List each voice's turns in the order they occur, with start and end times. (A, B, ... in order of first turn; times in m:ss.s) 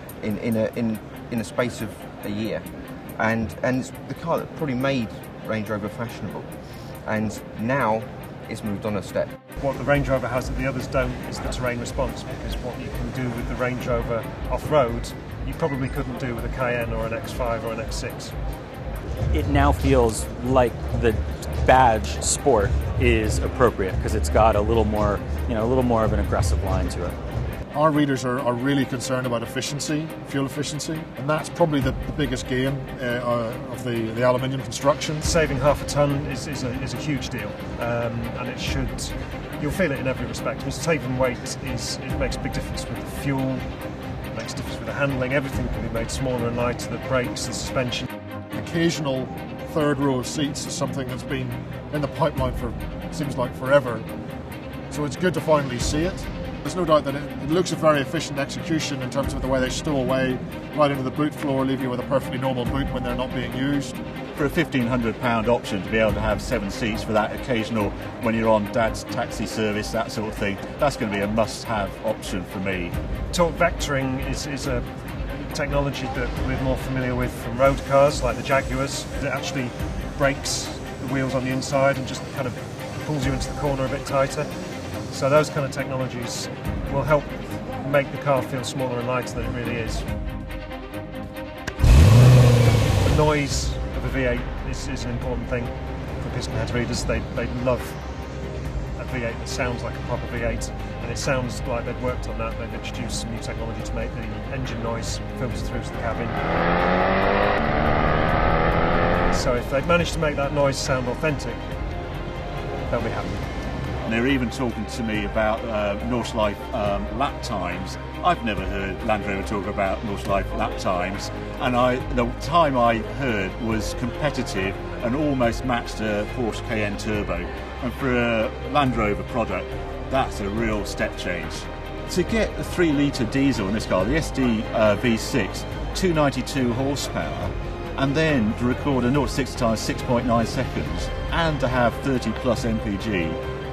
0:00.2-0:02.6 A
0:03.2-0:06.5 A
0:07.0-0:09.3 A
0:09.6-0:18.3 B
0:19.3-0:27.2 C
0:27.7-0:35.2 D
0:35.2-0:43.7 B
0:44.3-0:48.1 B
0:48.6-0:54.1 D
0:54.9-1:04.0 D
1:04.3-1:13.0 E
1:13.3-1:14.9 B
1:15.5-1:24.5 B
1:25.1-1:30.1 B
1:33.0-1:38.0 B
1:39.0-1:46.4 B
1:49.3-1:51.6 B
1:52.9-1:53.4 B
1:54.0-2:23.4 E